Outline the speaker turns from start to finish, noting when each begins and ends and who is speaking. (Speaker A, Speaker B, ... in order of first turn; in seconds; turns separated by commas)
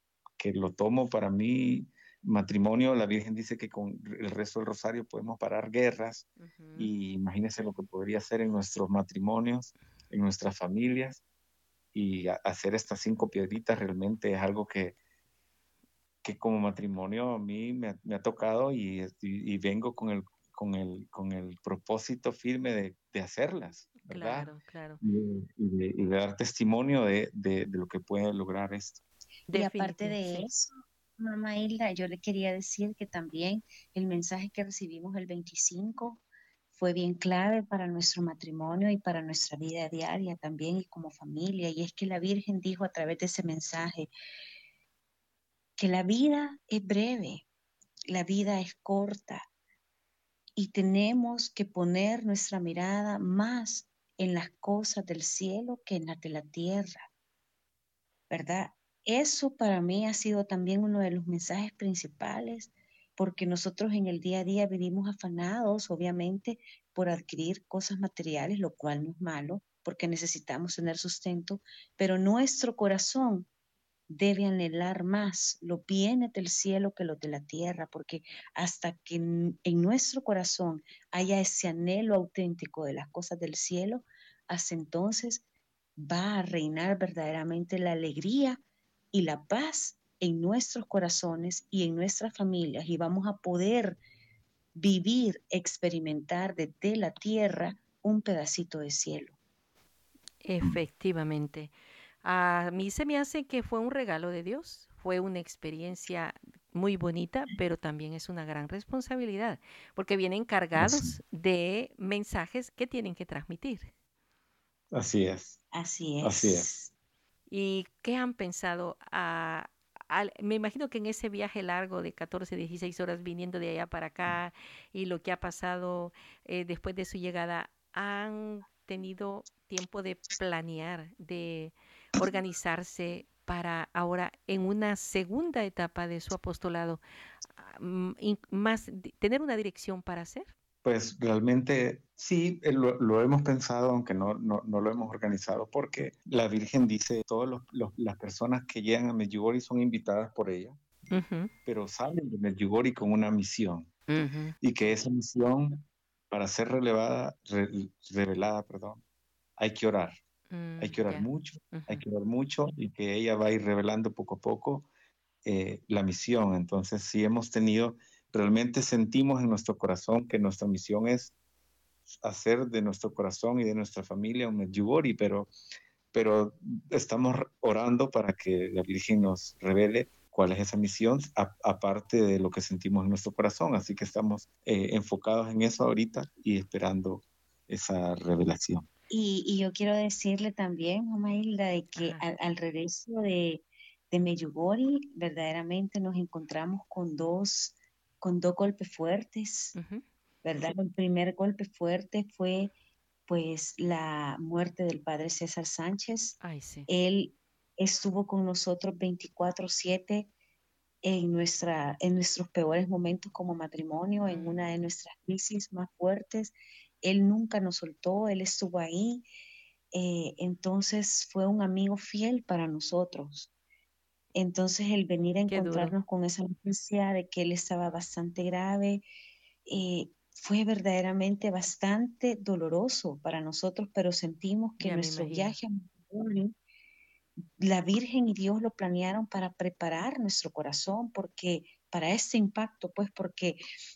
Speaker A: 0.4-11.2, Speaker B: 6.4-6.9, Speaker A: 11.9-14.9, Speaker A: 16.2-29.0, Speaker B: 24.0-25.0, Speaker B: 29.5-30.5, Speaker C: 29.5-36.2, Speaker C: 36.7-44.1, Speaker C: 45.8-47.4, Speaker C: 48.1-49.4, Speaker C: 50.6-57.0, Speaker C: 58.3-73.5, Speaker C: 74.1-85.4, Speaker C: 86.0-88.6, Speaker C: 89.1-94.0, Speaker C: 94.7-99.3, Speaker B: 100.4-113.9, Speaker A: 110.8-111.2, Speaker A: 114.9-115.6, Speaker C: 115.7-116.9, Speaker A: 116.2-116.7, Speaker B: 117.5-137.0, Speaker B: 137.6-140.5, Speaker A: 140.8-150.8, Speaker B: 151.1-151.5, Speaker A: 151.7-153.9, Speaker B: 154.1-154.6, Speaker A: 154.6-159.0, Speaker A: 159.6-160.1, Speaker B: 160.5-162.0, Speaker A: 160.8-164.9, Speaker A: 165.4-171.3, Speaker A: 172.1-175.5, Speaker A: 176.1-188.9, Speaker C: 189.1-199.8, Speaker B: 191.9-192.2, Speaker B: 199.7-200.0, Speaker C: 200.4-202.7, Speaker C: 203.3-206.3, Speaker B: 206.4-206.9, Speaker C: 206.9-210.3, Speaker C: 211.0-219.2, Speaker B: 214.3-214.6, Speaker C: 219.9-223.5, Speaker C: 224.3-229.0, Speaker B: 225.5-225.9, Speaker C: 229.7-236.5, Speaker B: 234.8-235.6, Speaker C: 237.6-243.6